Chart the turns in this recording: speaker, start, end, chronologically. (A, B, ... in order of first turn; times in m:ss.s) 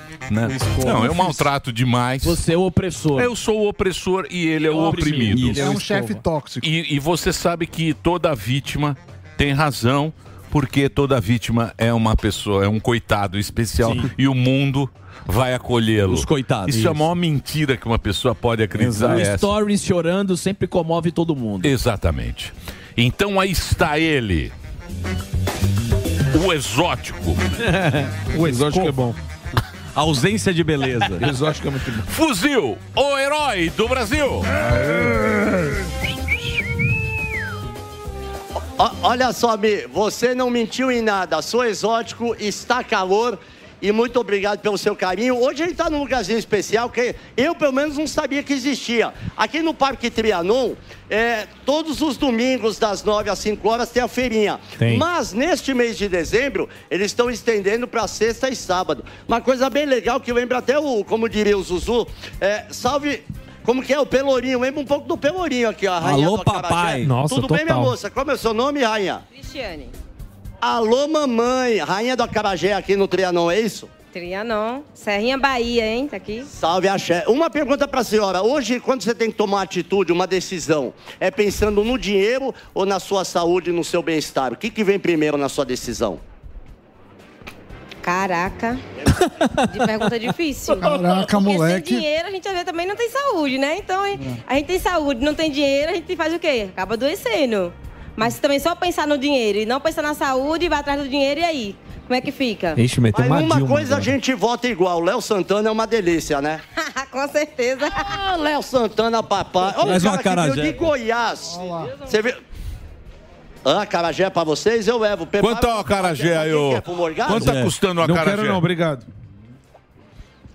0:00.3-0:02.4 A
0:02.2-0:03.3 B
0:03.2-0:05.7 A
0:04.7-0:05.4 B
0:05.3-0:05.7 C
0:05.5-0:06.7 D
0:05.6-0:06.2 E
0:06.6-0:19.5 A
0:16.0-0:17.0 C
0:18.8-0:21.7 B
0:21.6-0:24.5 A
0:26.3-0:27.4 A
0:28.3-0:29.1 F
0:30.0-0:31.3 C
0:31.2-0:32.0 F
0:32.1-0:34.5 A
0:34.8-0:35.1 F
0:38.8-1:09.2 G
1:06.0-1:07.0 C
1:07.0-1:08.0 E
1:09.3-1:09.9 H
1:10.6-1:13.9 G
1:14.1-1:16.5 H
1:16.5-1:26.2 G
1:28.0-1:28.8 H
1:29.7-1:42.8 H
1:30.8-1:32.1 D
1:42.8-1:44.2 E
1:43.1-1:46.6 G
1:46.8-1:48.1 H
1:48.1-1:52.4 G
1:49.8-1:50.8 C
1:51.4-1:52.0 D
1:53.6-1:57.6 G
1:55.4-1:58.7 A
1:57.3-1:57.6 C
1:58.0-1:59.0 F